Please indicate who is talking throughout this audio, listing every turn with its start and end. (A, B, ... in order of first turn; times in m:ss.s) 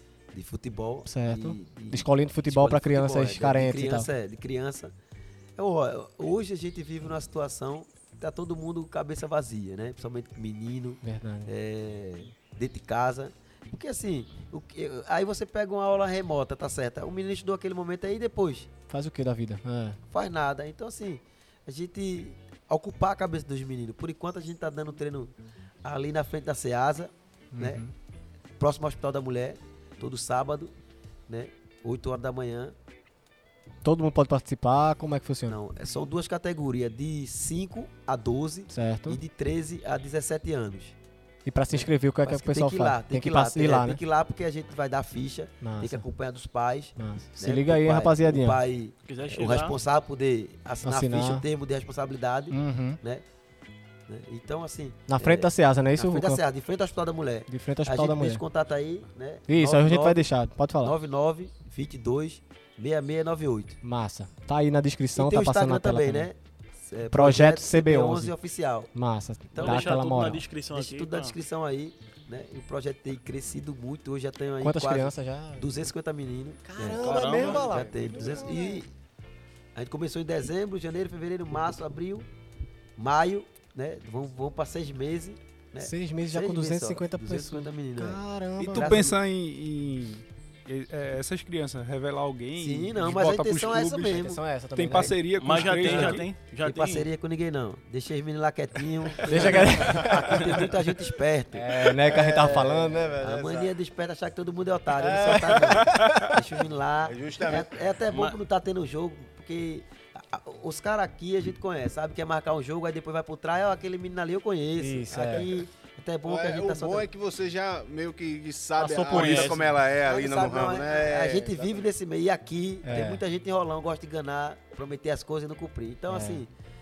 0:00.3-0:04.9 A
0:01.0-0:04.1 B
0:05.6-0:18.7 A
0:11.0-0:11.5 B
0:18.9-0:20.0 B
0:20.1-0:25.3 A
0:25.8-0:27.8 A
0:27.5-0:27.9 B
0:28.6-0:30.7 A
0:31.3-0:32.7 A
0:33.8-0:35.6 B
0:35.5-0:41.0 A
0:38.7-0:39.2 B
0:41.4-0:44.0 B
0:41.7-0:53.2 A
0:45.6-0:46.0 B
0:47.0-0:48.6 B
0:49.0-0:49.8 C
0:50.8-0:51.4 B
0:52.5-0:53.0 B
0:54.1-1:00.2 A
0:55.1-0:56.4 B
0:57.5-0:58.4 B
0:59.5-1:00.9 B
1:00.8-1:03.8 A
1:03.8-1:06.3 B
1:05.1-1:08.9 A
1:07.1-1:08.3 B
1:08.9-1:10.4 B
1:09.5-1:10.1 A
1:09.6-1:11.3 C
1:10.7-1:18.9 A
1:14.6-1:15.8 B
1:16.6-1:18.8 B
1:16.9-1:17.8 C
1:17.4-1:18.5 D
1:19.7-1:22.3 A
1:23.0-1:29.2 A
1:25.8-1:29.1 B
1:28.6-1:36.3 E
1:32.6-1:34.4 A
1:34.0-1:35.6 B
1:35.4-1:37.1 C
1:35.8-1:57.1 A
1:39.2-1:40.7 B
1:41.5-1:43.7 B
1:45.0-1:46.4 B
1:47.0-1:47.9 D
1:48.1-1:48.4 C
1:54.8-1:55.5 B
1:56.2-2:01.8 D
1:58.8-1:59.6 B
1:59.1-1:59.6 C
2:00.0-2:06.5 A
2:02.8-2:03.2 B
2:06.1-2:06.4 B